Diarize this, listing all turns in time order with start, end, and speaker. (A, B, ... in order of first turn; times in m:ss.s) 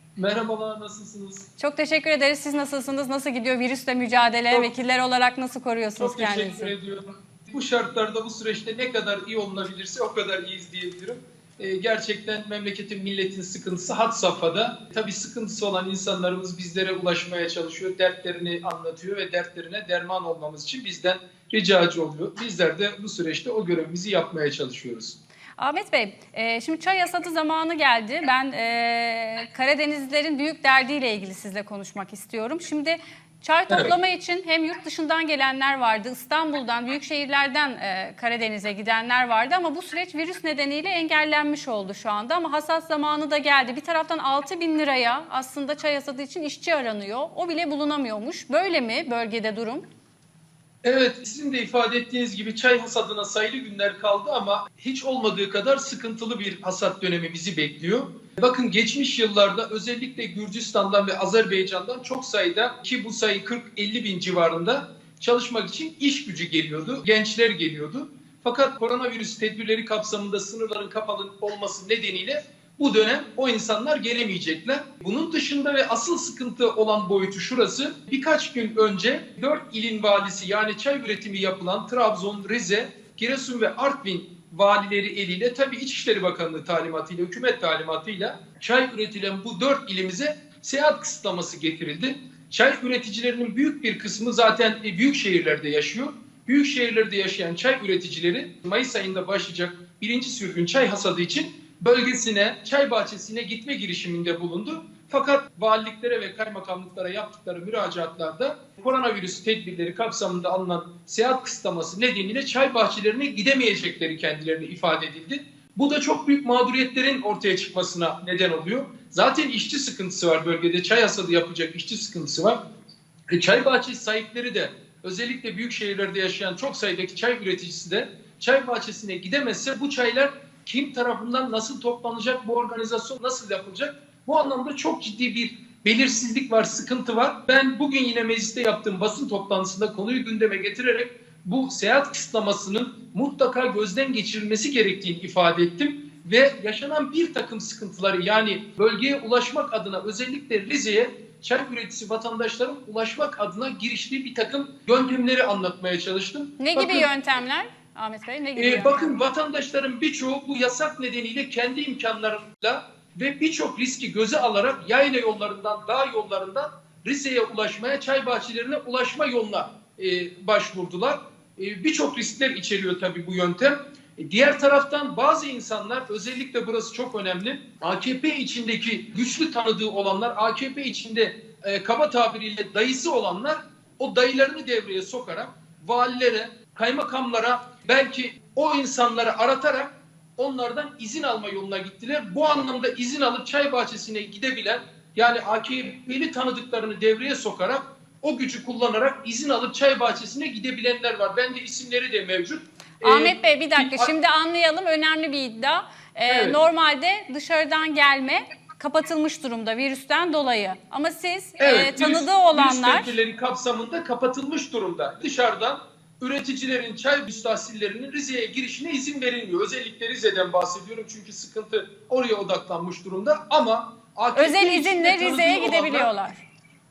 0:00.2-0:01.5 A
0:01.6-0:06.7 B
0:06.0-0:25.2 A
0:25.6-0:49.8 B
0:33.7-0:33.9 A
0:50.8-2:02.6 A
2:03.3-2:37.1 A
2:36.6-2:39.2 B
2:38.6-3:24.1 A
3:23.0-3:33.1 B
3:26.2-3:26.6 A
3:31.6-3:46.1 A
3:44.3-3:46.4 B